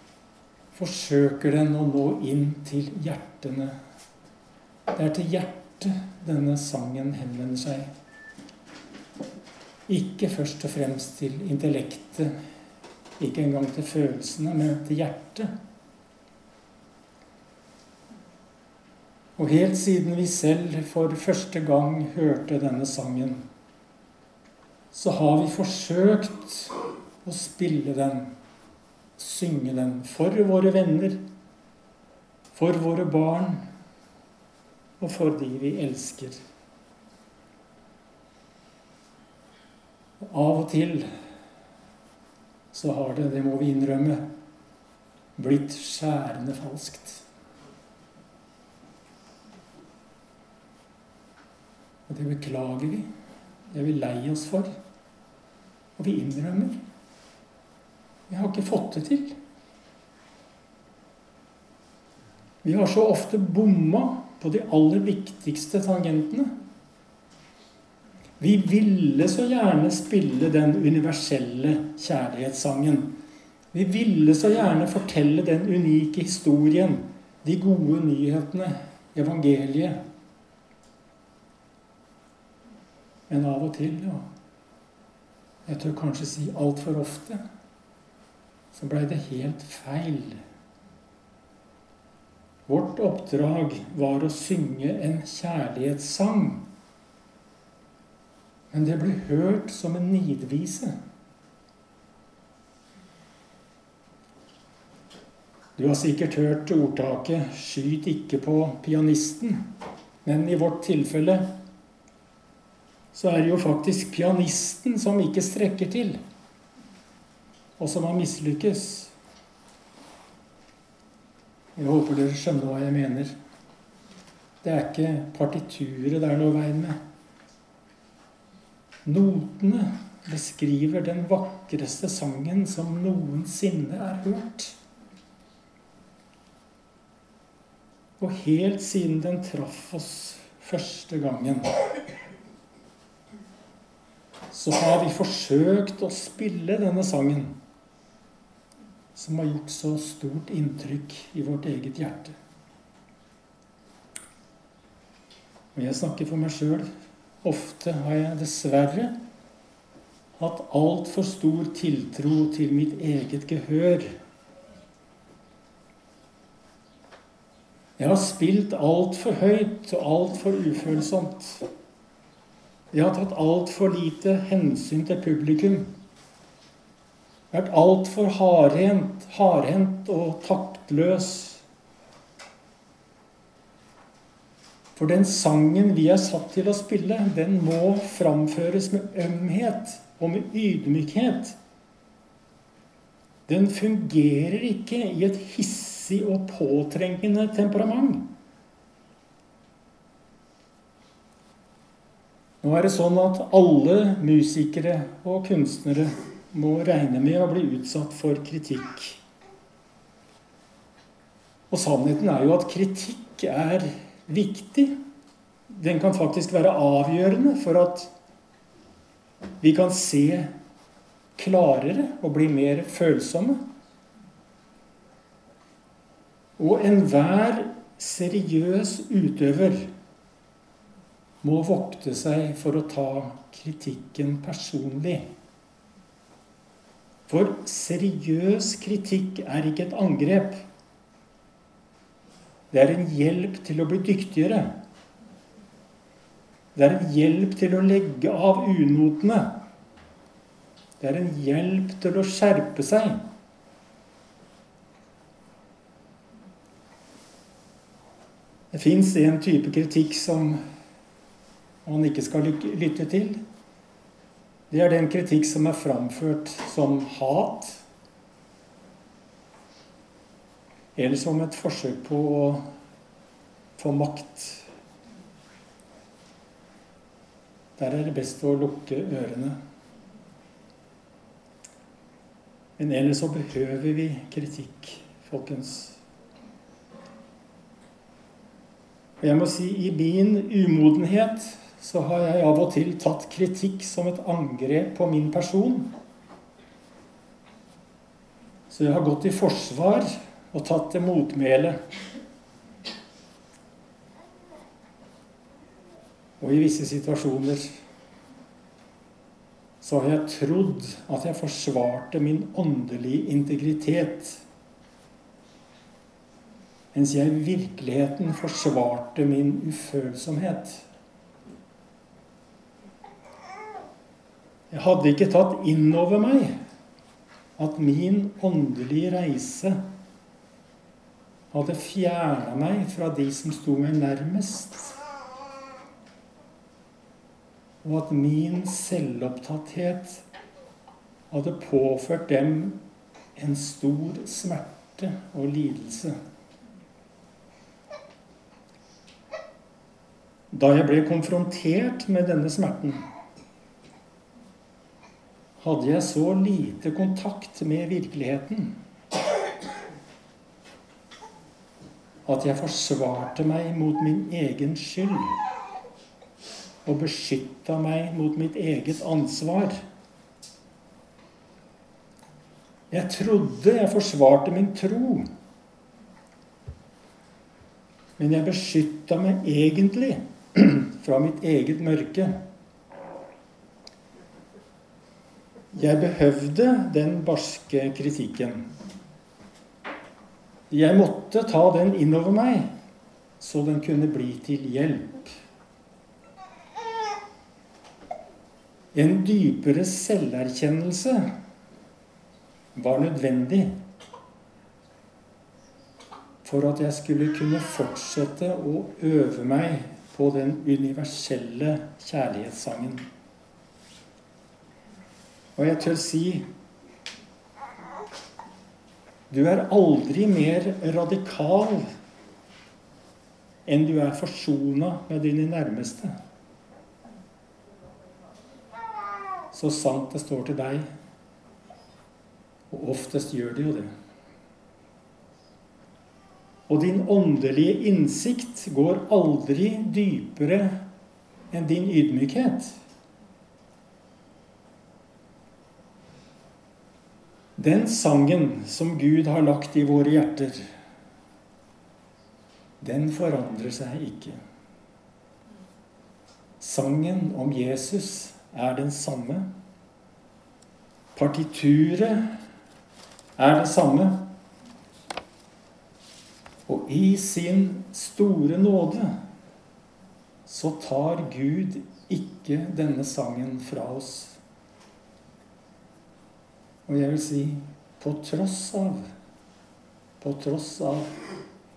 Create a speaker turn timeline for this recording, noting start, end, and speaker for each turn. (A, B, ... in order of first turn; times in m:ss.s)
0:00.7-0:03.8 A
0:04.9-0:07.9 A
0:09.9-0:12.3 A
0:13.2-0:15.5 A
0:19.4-0:23.4 A
0:24.9-0:28.3 A
0:29.2-0:31.2 A
0:32.5-0:33.6 A
0:35.0-0:36.4 A
0:40.2-0:41.1 A
0:42.7-0:44.2 A
0:45.4-0:47.2 A
0:52.1-0:53.1 A
0:53.7-0:54.7 A
0:56.0-0:56.8 A
0:58.3-0:59.4 A
1:02.6-1:06.5 A
1:08.4-1:13.1 A
1:13.7-1:20.0 A
1:23.3-1:24.2 A
1:25.6-1:27.4 A
1:28.7-1:30.4 A
1:32.7-1:36.6 A
1:38.7-1:40.9 A
1:45.8-1:49.6 A
1:50.2-1:51.5 A
1:53.1-1:56.2 A
1:57.8-1:59.1 A
2:01.8-2:03.3 A
2:04.6-2:07.0 A
2:09.0-2:14.8 A
2:18.2-2:21.7 A
2:24.5-2:27.6 A
2:29.1-2:32.4 A
2:35.7-2:36.9 A
2:37.4-2:39.1 A
2:40.4-2:44.1 A
2:48.0-2:51.7 A
2:52.9-2:55.9 A
2:57.5-3:01.6 A
3:04.9-3:11.6 A
3:13.5-3:18.2 A
3:22.6-3:29.2 A
3:31.7-3:34.9 A
3:35.7-3:38.1 A
3:39.6-3:40.5 A
3:41.4-3:43.6 A
3:46.6-3:49.9 A
3:51.4-3:55.2 A
3:57.3-4:00.6 A
4:02.7-4:04.7 A
4:06.7-4:09.5 A
4:11.0-4:13.2 A
4:18.7-4:20.6 A
4:21.8-4:23.4 A
4:24.7-4:27.8 A
4:30.9-4:32.6 A
4:33.8-4:34.7 A
4:37.8-4:39.6 A
4:42.8-4:46.0 A
4:49.2-4:55.9 A
4:58.7-5:01.8 A
5:06.4-5:07.7 A
5:09.8-5:14.4 A
5:16.9-5:20.8 A
5:24.7-5:26.5 A
5:27.6-5:29.8 A
5:31.5-5:35.0 A
5:37.8-5:40.2 A
5:41.3-5:42.8 A
5:43.4-5:46.2 A
5:50.5-5:53.0 A
5:55.6-5:58.8 A
6:02.2-6:05.4 A
6:06.8-6:09.8 A
6:12.9-6:15.2 A
6:18.2-6:22.4 A
6:25.7-6:28.7 A
6:30.7-6:32.7 A
6:33.4-6:35.4 A
6:38.9-6:41.3 A
6:42.7-6:43.7 A
6:46.4-6:53.0 A
6:55.6-6:56.4 A
6:59.3-7:01.9 A
7:03.6-7:06.1 A
7:09.5-7:10.9 A
7:12.7-7:13.9 A
7:16.7-7:20.8 A
7:21.5-7:22.8 A
7:27.6-7:30.6 A
7:32.8-7:34.4 A
7:36.6-7:39.5 A
7:41.1-7:42.3 A
7:43.4-7:44.2 A
7:46.7-7:49.2 A
7:50.5-7:54.4 A
7:56.8-7:59.0 A
8:00.2-8:01.1 A